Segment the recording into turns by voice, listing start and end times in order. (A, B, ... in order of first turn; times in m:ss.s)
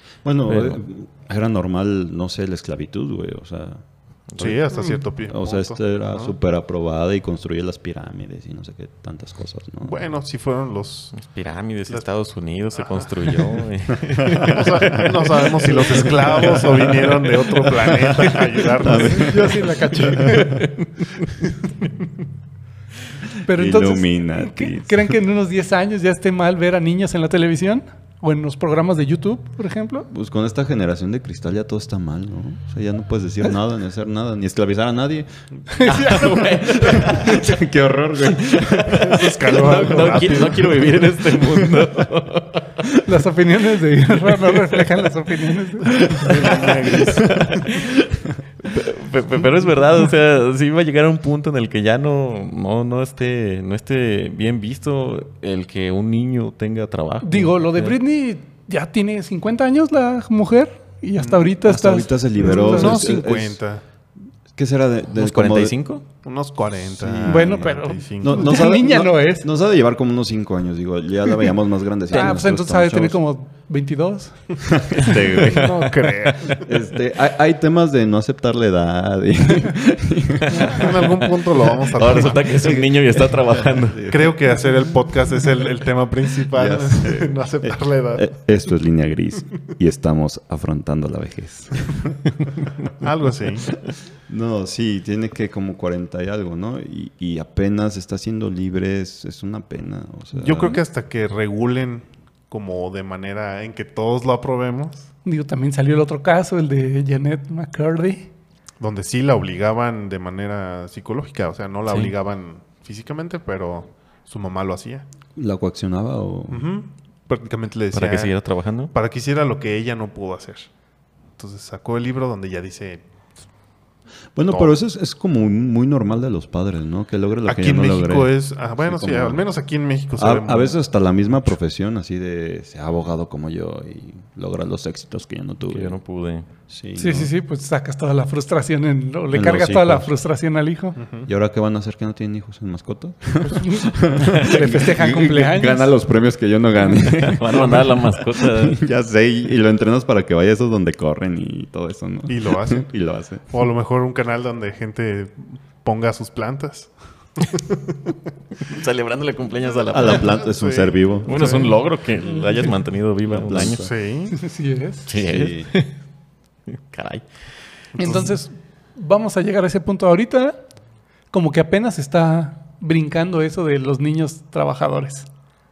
0:00.2-0:03.8 A
0:00.5-0:00.8 B
0:04.3-0:04.6 B
0:04.4-0:06.4 C
0:05.3-0:10.0 A
0:09.8-0:11.2 C
0:11.1-0:17.1 B
0:12.8-0:13.5 C
0:14.2-0:15.1 A
0:14.4-0:19.7 C
0:15.7-0:17.1 A
0:17.8-0:20.6 A
0:18.8-0:20.6 D
0:20.3-0:21.2 B
0:23.4-0:30.1 D
0:23.5-0:25.2 A
0:30.1-0:35.3 A
0:35.7-0:37.1 D
0:35.8-0:37.6 B
0:36.0-0:40.1 A
0:38.2-0:42.9 B
0:39.0-0:41.0 C
0:41.3-0:42.0 A
0:43.0-0:46.2 D
0:44.2-0:44.9 B
0:45.9-0:48.1 B
0:46.1-0:47.4 A
0:46.5-0:46.7 C
0:48.6-0:58.0 B
0:57.2-1:03.0 D
1:01.2-1:01.5 C
1:01.6-1:03.6 A
1:02.4-1:03.8 C
1:04.5-1:05.8 A
1:05.2-1:06.0 B
1:06.2-1:08.6 C
1:06.9-1:13.2 A
1:07.3-1:09.5 D
1:12.1-1:14.4 D
1:14.6-1:21.2 A
1:15.4-1:16.7 C
1:20.5-1:24.0 B
1:20.6-1:22.8 C
1:22.0-1:24.5 A
1:24.1-1:28.3 C
1:26.5-1:32.2 A
1:33.0-1:33.7 C
1:34.3-1:40.8 A
1:40.4-1:45.1 C
1:45.2-1:48.3 D
1:48.8-1:55.1 C
1:51.9-1:52.1 B
1:55.4-1:56.6 A
1:56.5-1:58.3 C
1:57.9-1:58.9 B
1:58.9-2:00.7 C
2:01.4-2:03.0 C
2:04.4-2:09.4 A
2:04.5-2:04.8 C
2:07.5-2:10.8 C
2:10.2-2:16.0 A
2:15.7-2:16.5 B
2:16.7-2:17.3 A
2:17.0-2:21.0 D
2:19.3-2:20.1 A
2:21.0-2:21.3 C
2:21.3-2:33.5 A
2:23.4-2:25.9 D
2:27.2-2:28.8 B
2:32.3-2:32.9 C
2:33.5-2:38.2 C
2:38.6-2:40.4 B
2:39.9-2:41.7 A
2:40.1-2:41.8 C
2:41.2-2:43.9 B
2:43.3-2:43.9 A
2:43.7-2:44.4 C
2:44.3-2:45.1 D
2:45.1-2:45.9 B
2:45.1-2:45.7 A
2:46.7-2:47.3 B
2:48.0-2:48.3 C
2:48.0-2:50.6 D
2:51.3-2:55.3 D